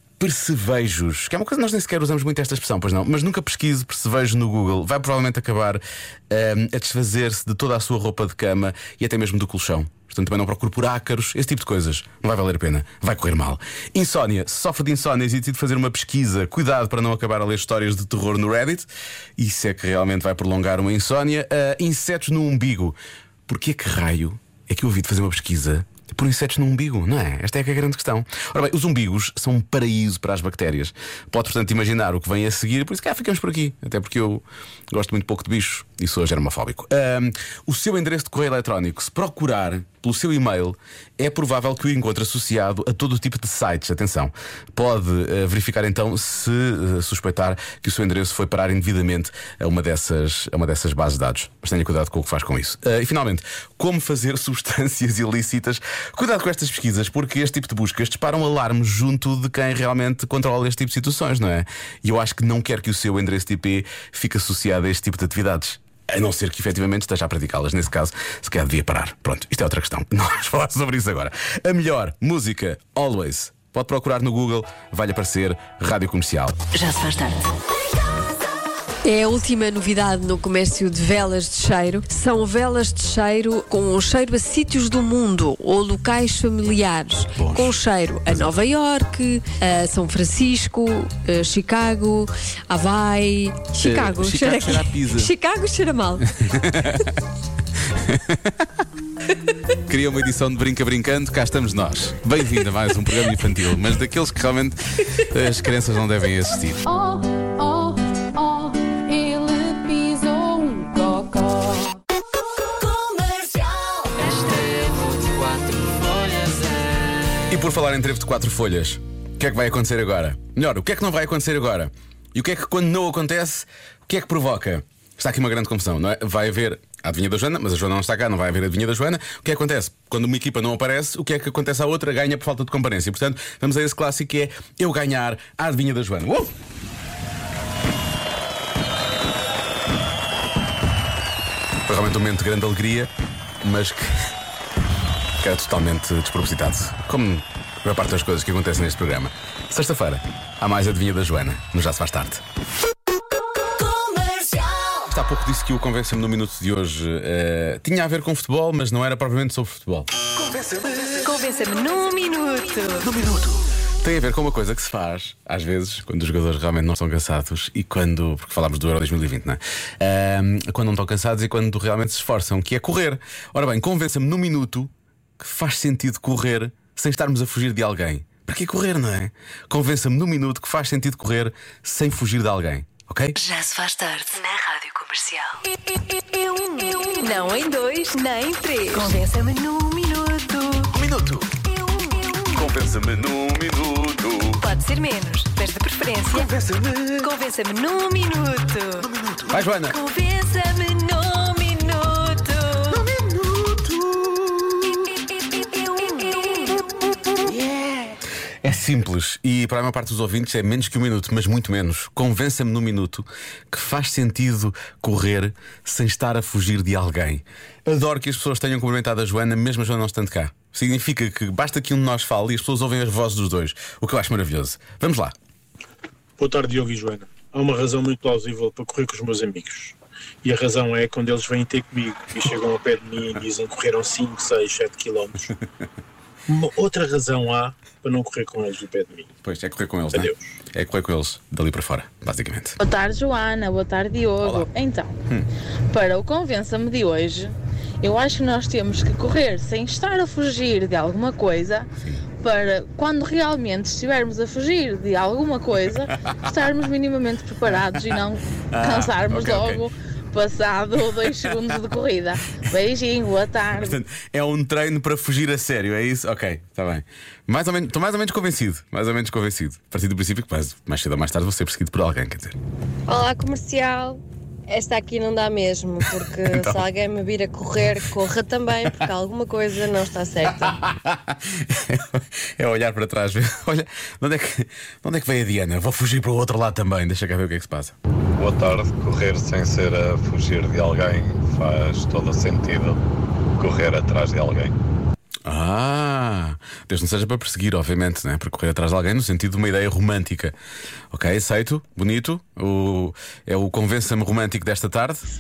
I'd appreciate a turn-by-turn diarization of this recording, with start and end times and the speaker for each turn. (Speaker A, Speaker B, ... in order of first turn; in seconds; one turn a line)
Speaker A: 0.2-76.6
Speaker B: 79.0-96.2
Speaker A: 87.3-88.6
Speaker A: 93.8-95.3
Speaker A: 96.2-97.1
Speaker A: 97.9-98.6
Speaker A: 99.9-106.8
Speaker C: 106.9-111.9
Speaker A: 117.5-136.5
Speaker A: 141.9-143.1
Speaker A: 143.6-144.1
Speaker A: 145.4-152.4
Speaker A: 155.1-160.1
Speaker C: 161.2-163.1
Speaker A: 163.0-183.4
Speaker C: 183.5-185.6
Speaker C: 186.2-190.9
Speaker A: 190.9-191.5
Speaker C: 191.8-192.3
Speaker A: 192.5-194.6
Speaker C: 194.6-196.5
Speaker A: 196.3-197.3
Speaker C: 197.2-199.1
Speaker A: 199.3-200.0
Speaker C: 199.9-202.9
Speaker A: 202.9-204.6
Speaker C: 205.2-206.9
Speaker A: 207.5-208.1
Speaker A: 208.6-225.3
Speaker D: 226.4-235.5
Speaker D: 236.5-239.2
Speaker A: 239.4-242.8
Speaker D: 240.1-240.5
Speaker E: 242.8-245.1
Speaker A: 244.4-244.7
Speaker E: 245.9-251.9
Speaker E: 252.4-263.9
Speaker A: 258.7-259.9
Speaker A: 261.0-261.6
Speaker A: 263.7-272.6
Speaker F: 273.1-280.8
Speaker A: 276.0-276.9
Speaker A: 280.4-287.9
Speaker G: 288.4-293.0
Speaker G: 293.6-294.8
Speaker A: 295.4-300.6
Speaker A: 301.1-305.2